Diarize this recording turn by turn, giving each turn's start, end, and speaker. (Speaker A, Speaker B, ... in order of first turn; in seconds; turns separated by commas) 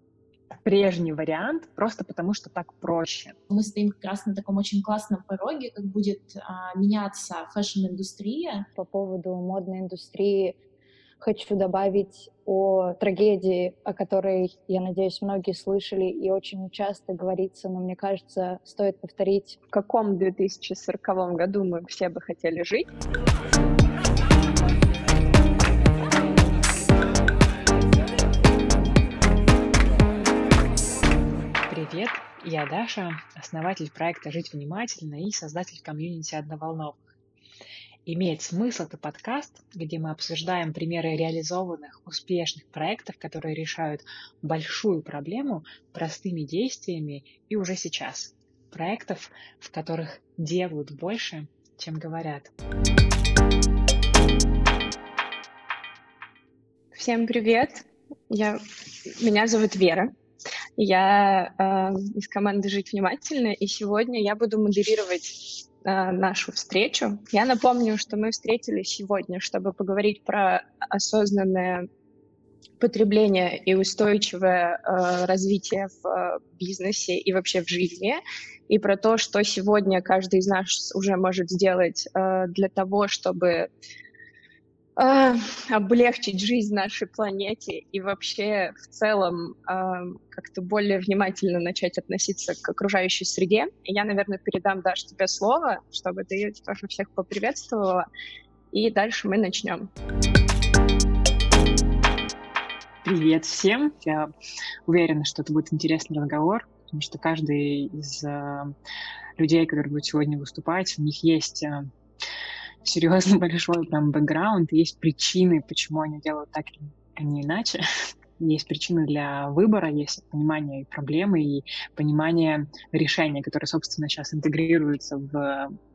Speaker A: 0.6-3.4, Speaker B: 3.5-8.7, Speaker C: 8.7-10.6, Speaker C: 11.2-19.6, Speaker D: 19.7-22.9, Speaker A: 31.7-37.0, Speaker A: 38.0-52.5, Speaker D: 56.9-60.1, Speaker D: 60.8-71.9, Speaker D: 72.8-83.7, Speaker D: 85.0-98.0, Speaker D: 98.7-99.9, Speaker A: 103.0-104.3, Speaker A: 104.9-108.7, Speaker A: 109.4-111.9, Speaker A: 112.8-117.8, Speaker A: 118.4-125.8